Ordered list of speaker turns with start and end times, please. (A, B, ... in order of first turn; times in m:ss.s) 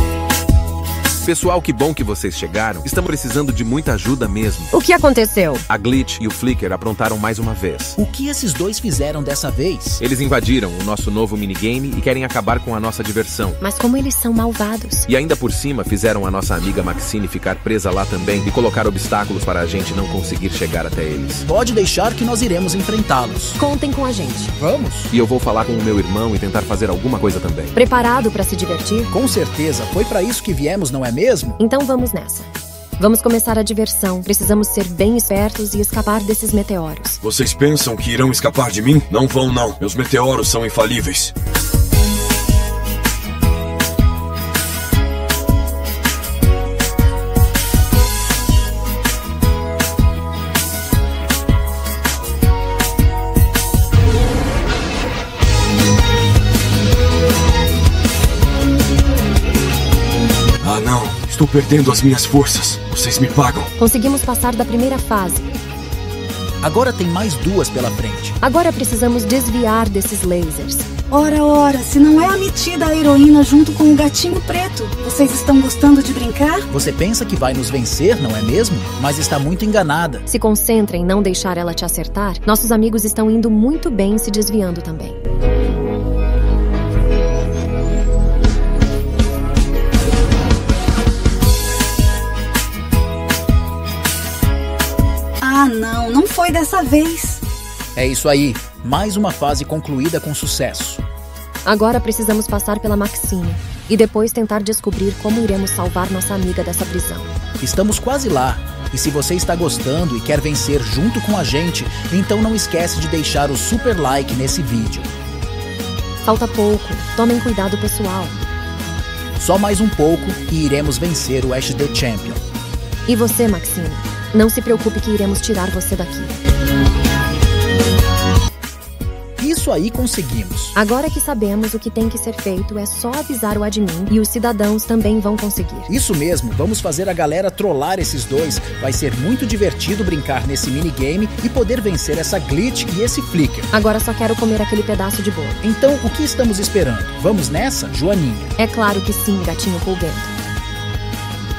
0:01.2-0:04.7 A
0:04.7-0:05.6 B
0:05.7-0:08.0 A
0:08.0-0:10.0 C
0:10.0-0:13.6 A
0:13.6-0:15.1 B
0:15.1-0:21.4 A
0:21.4-0:23.6 C
0:23.6-0:24.5 B
0:24.6-0:25.1 C
0:25.1-0:27.8 A
0:27.7-0:29.1 B
0:29.1-0:31.6 C
0:31.6-0:32.5 B
0:33.0-0:37.2 B
0:37.2-0:41.3 D
1:00.6-1:03.7 D
1:03.8-1:05.5 B
1:06.6-1:08.4 C
1:08.4-1:10.9 B
1:11.1-1:16.7 E
1:16.7-1:20.2 C
1:20.3-1:25.2 B
1:35.4-1:37.4 E
1:38.0-1:41.0 C
1:41.6-1:47.3 B
1:47.6-1:55.1 C
1:56.2-1:58.4 B
1:59.4-2:02.4 C
2:03.1-2:06.3 B
2:09.4-2:10.8 C
2:10.8-2:15.9 B
2:15.9-2:23.7 C
2:23.7-2:25.6 B
2:25.6-2:28.5 C
2:28.6-2:30.3 B